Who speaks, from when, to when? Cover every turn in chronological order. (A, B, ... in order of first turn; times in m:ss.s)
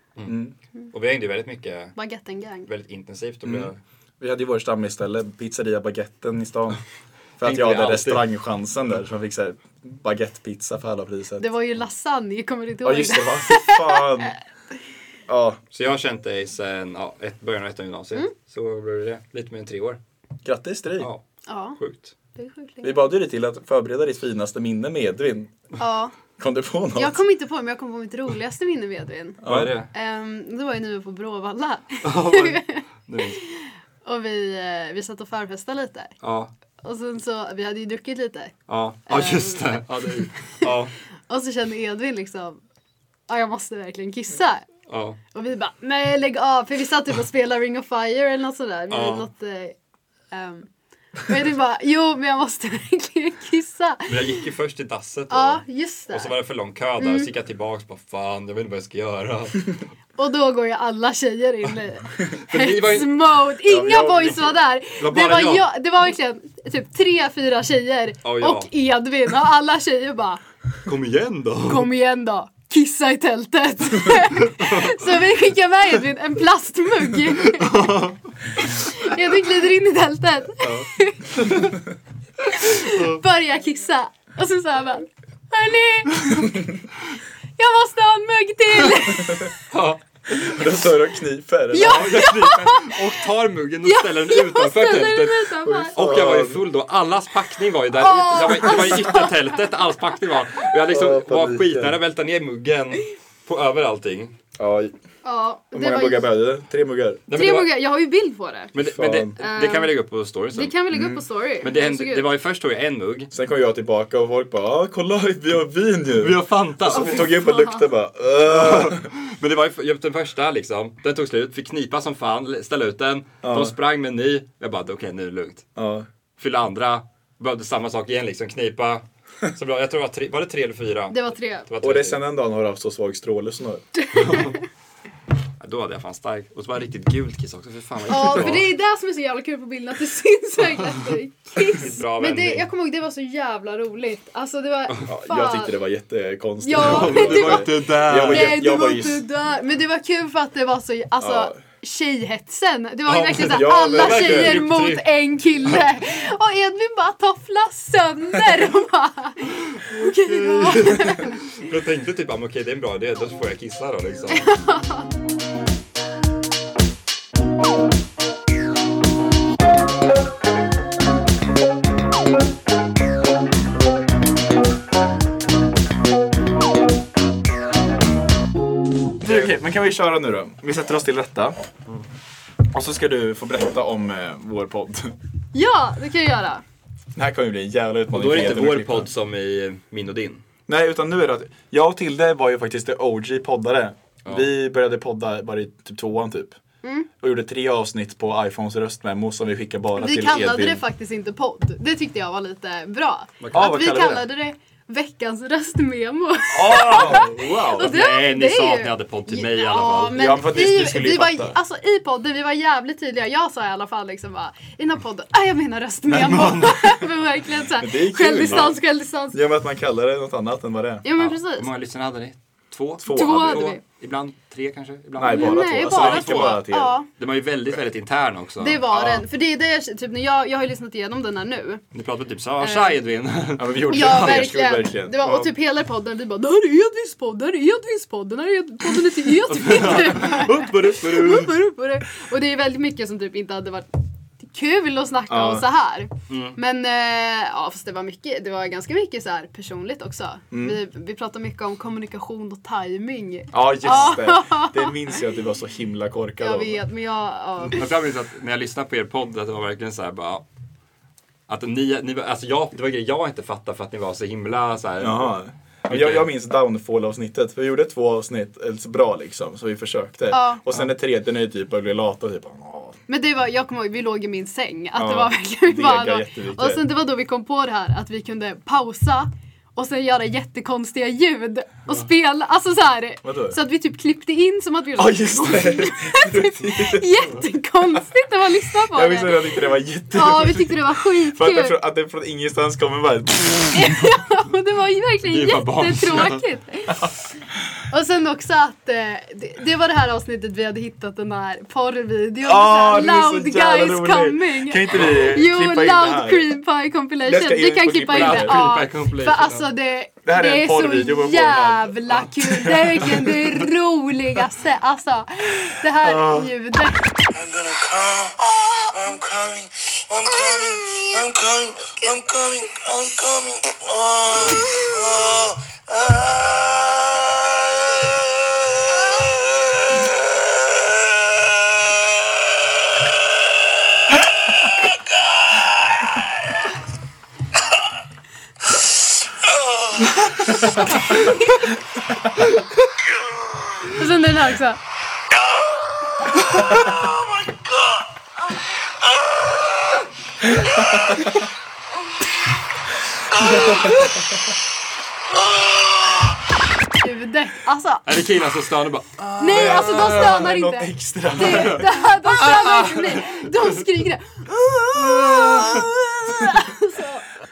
0:00.2-0:00.5 A
0:00.9-0:02.0 B
0:02.0-0:02.7 C
0:02.6-0:03.8 B
0:03.4-0:06.8 A
0:07.4-0:11.5 A
0:07.4-0:08.2 B
0:11.4-0:14.3 C
0:12.8-0:14.3 A
0:15.3-0:15.6 A
0:15.7-0:20.0 B
0:20.4-0:21.1 A
0:21.5-0:21.8 C
0:21.8-0:22.1 B
0:22.4-0:23.0 C
0:22.8-0:25.5 A
0:25.8-0:26.1 C
0:26.4-0:27.2 A
0:27.0-0:29.4 C
0:29.4-0:29.7 A
0:29.4-0:29.9 B
0:29.9-0:36.1 C
0:32.0-0:33.4 B
0:36.2-0:36.5 B
0:36.8-0:38.6 C
0:38.7-0:40.9 B
0:39.1-0:40.1 C
0:41.3-0:42.6 C
0:43.3-0:44.6 C
0:44.9-0:45.2 B
0:45.3-0:49.8 C
0:48.9-0:49.3 B
0:50.3-0:50.7 C
0:51.2-0:54.3 C
0:54.1-0:59.8 B
0:55.3-0:56.3 C
0:57.0-0:57.3 C
1:00.2-1:10.4 C
1:02.3-1:03.2 B
1:03.7-1:04.5 A
1:05.0-1:05.7 B
1:08.2-1:08.7 B
1:10.8-1:11.9 B
1:11.7-1:17.9 C
1:14.4-1:15.3 B
1:17.4-1:18.2 B
1:18.6-1:21.7 C
1:21.4-1:21.7 A
1:22.4-1:26.6 C
1:22.8-1:23.2 B
1:27.6-1:29.5 C
1:29.7-1:30.0 B
1:30.3-1:32.2 A
1:31.7-1:33.1 C
1:31.8-1:44.3 B
1:33.8-1:36.1 C
1:35.6-1:36.6 A
1:37.9-1:39.6 C
1:40.9-1:42.0 A
1:44.6-1:44.9 A
1:45.2-1:46.3 C
1:45.7-1:47.2 A
1:47.3-1:47.7 B
1:47.3-1:48.7 C
1:48.7-1:51.0 B
1:48.8-1:49.3 A
1:49.4-1:49.9 C
1:50.5-1:52.3 C
1:51.6-1:53.3 B
1:53.3-1:59.1 A
1:56.2-1:57.3 B
1:56.9-1:57.9 C
1:58.4-2:05.6 B
2:03.4-2:03.7 A
2:05.8-2:06.1 A
2:06.4-2:12.2 B
2:11.1-2:11.7 C
2:11.8-2:13.8 A
2:14.0-2:14.6 C
2:14.1-2:14.6 B
2:15.6-2:18.7 B
2:18.1-2:25.8 C
2:21.6-2:22.7 B
2:25.1-2:29.2 A
2:26.6-2:41.4 C
2:26.7-2:28.6 B
2:31.2-2:31.6 A
2:33.1-2:35.8 B
2:33.5-2:34.6 A
2:39.7-2:44.5 B
2:44.3-2:45.0 C
2:59.2-3:01.6 A
2:59.2-2:59.6 B
3:02.7-3:05.2 A
3:05.5-3:06.6 C
3:07.1-3:09.1 A
3:08.1-3:10.4 B
3:10.7-3:16.6 A
3:16.8-3:17.1 C
3:17.2-3:20.8 A
3:20.0-3:39.4 C
3:23.4-3:24.2 B
3:23.5-3:24.2 A
3:26.5-3:28.0 A
3:26.9-3:27.2 B
3:27.8-3:30.4 B
3:30.0-3:31.6 A
3:36.1-3:36.7 A
3:36.2-3:36.8 B
3:37.7-3:38.8 A
3:38.5-3:38.7 B
3:39.3-3:41.0 A
3:41.0-3:41.7 C
3:41.2-3:49.2 B
3:43.0-3:43.7 A
3:43.1-3:43.8 C
3:45.2-3:46.9 A
3:45.3-3:47.1 C
3:48.6-3:51.8 C
3:51.9-3:54.6 B
3:52.6-3:53.0 C
3:53.6-3:55.5 A
3:53.9-4:03.9 C
3:59.4-4:01.5 B
4:04.4-4:14.9 C
4:05.3-4:05.6 A
4:06.3-4:06.6 B
4:10.5-4:10.8 A
4:13.5-4:16.8 A
4:16.4-4:17.8 C
4:17.7-4:20.4 B
4:21.5-4:25.3 B
4:25.0-4:33.0 A
4:25.9-4:26.3 B
4:30.3-4:30.6 C
4:33.1-4:51.7 C
4:34.9-4:36.8 A
4:43.2-4:43.6 A
4:45.0-4:47.3 A
4:48.9-4:54.1 A
4:53.7-4:57.1 C
4:55.2-4:56.4 B
4:57.9-5:17.1 C
5:02.4-5:06.5 A
5:07.2-5:08.6 A
5:08.1-5:09.6 B
5:10.2-5:13.5 A
5:15.9-5:16.5 A
5:17.3-5:36.6 D
5:38.7-5:40.6 D
5:40.8-5:41.6 C
5:43.0-5:44.0 D
5:43.9-5:44.8 C
5:45.3-5:48.5 D
5:49.0-5:50.0 D
5:50.7-5:51.3 A
5:53.3-5:53.8 D
5:53.4-5:54.0 A
5:55.3-5:56.4 D
5:57.0-5:58.0 C
5:58.0-6:00.3 B
5:59.4-6:07.2 C
5:59.4-6:01.8 A
6:01.3-6:03.7 B
6:04.9-6:05.9 A
6:05.4-6:05.8 B